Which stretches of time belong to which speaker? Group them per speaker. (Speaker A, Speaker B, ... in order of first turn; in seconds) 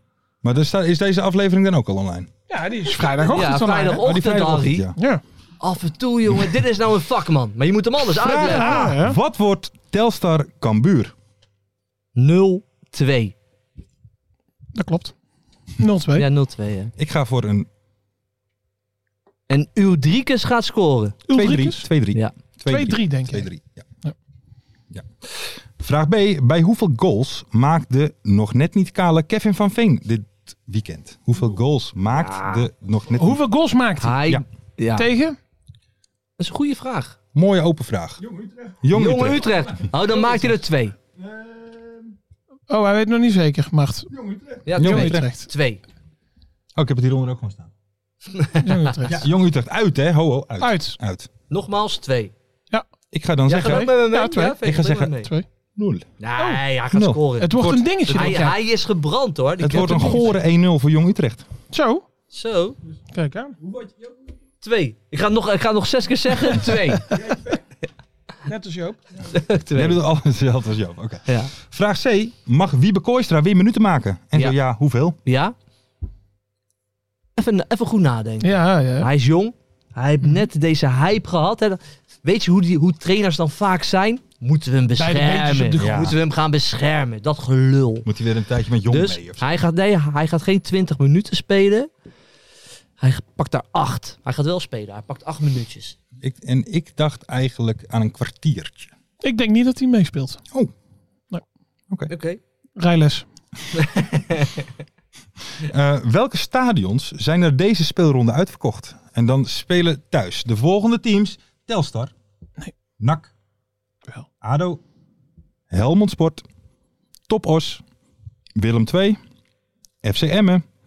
Speaker A: 0.4-2.3, 3.9-5.0, 8.2-11.1, 17.0-17.7, 21.3-23.8, 24.9-33.4, 37.3-39.5, 44.8-45.3, 46.8-47.7, 49.1-51.3, 53.1-53.9, 54.6-55.1, 55.8-56.1, 56.9-58.4, 59.6-61.4, 69.8-75.2, 85.8-86.2, 88.1-89.4, 96.2-98.9, 105.6-112.1, 113.0-113.3, 114.4-114.8, 115.7-116.5, 117.3-117.8, 118.5-119.2, 120.0-120.6
Speaker B: 2.5-4.0, 5.0-5.2, 8.3-9.2, 14.8-15.1, 15.8-16.3, 21.3-21.9, 22.7-23.5, 33.2-34.2, 35.0-35.4, 42.7-45.5, 48.6-49.3, 50.6-51.0, 53.6-55.5, 57.4-58.6, 59.7-60.3, 61.7-62.0, 63.1-63.6, 68.5-69.0, 78.4-79.1, 85.0-86.2, 99.2-100.4, 102.8-103.2
Speaker C: 3.3-4.9, 5.6-8.9, 12.2-13.3, 16.2-16.9, 19.5-21.2, 32.2-32.7, 34.0-35.1, 36.4-37.2, 38.9-41.0, 44.7-45.8, 48.3-48.9, 51.5-52.3, 53.5-55.3, 56.2-57.5, 58.1-60.3, 62.3-62.8, 64.6-67.3, 69.3-70.0, 71.3-71.5, 75.2-75.5, 77.4-88.1, 88.9-91.9, 93.0-96.0, 102.1-102.4, 103.7-104.7